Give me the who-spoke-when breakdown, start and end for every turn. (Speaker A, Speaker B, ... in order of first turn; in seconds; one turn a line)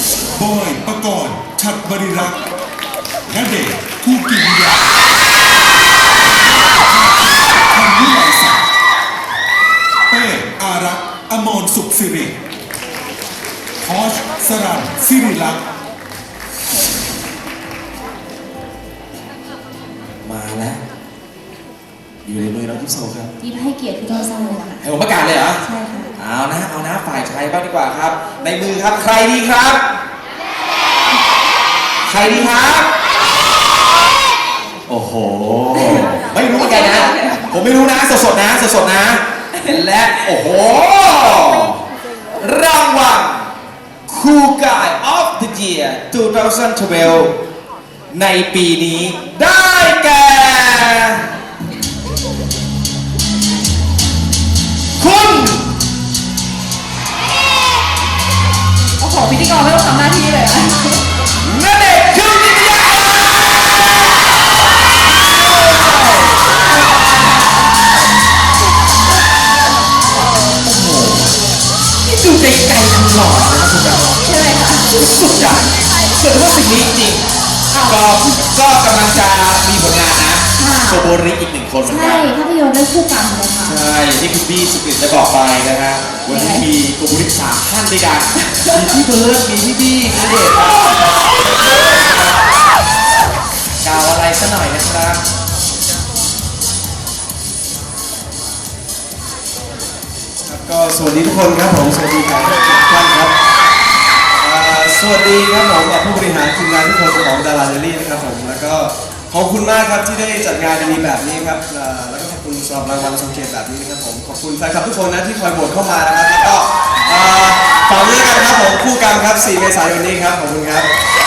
Speaker A: 0.4-2.4
Speaker A: 3.3-5.0
Speaker A: 6.9-8.6
Speaker A: 10.1-12.4
Speaker A: 13.8-15.6
Speaker B: 20.2-20.8
Speaker B: 22.2-23.3
Speaker C: 23.4-24.8
Speaker B: 24.8-25.6
Speaker C: 25.6-26.1
Speaker B: 26.2-29.9
Speaker B: 32.1-32.9
Speaker B: 34.9-41.8
Speaker C: 35.7-37.5
Speaker B: 42.4-43.5
Speaker B: 44.1-47.4
Speaker B: 48.1-51.2
Speaker B: 55.0-55.6
Speaker C: 59.0-61.0
Speaker B: 61.4-63.9
Speaker B: 65.6-66.3
Speaker C: 66.9-67.2
Speaker B: 70.6-71.3
Speaker B: 72.0-74.2
Speaker C: 74.2-74.9
Speaker B: 74.9-77.3
Speaker C: 77.7-78.0
Speaker B: 77.8-82.3
Speaker C: 80.5-81.1
Speaker C: 81.8-83.8
Speaker B: 83.6-90.9
Speaker C: 86.3-86.7
Speaker C: 88.5-88.8
Speaker B: 91.7-92.4
Speaker B: 93.8-95.2
Speaker D: 100.5-103.3
Speaker D: 104.4-120.9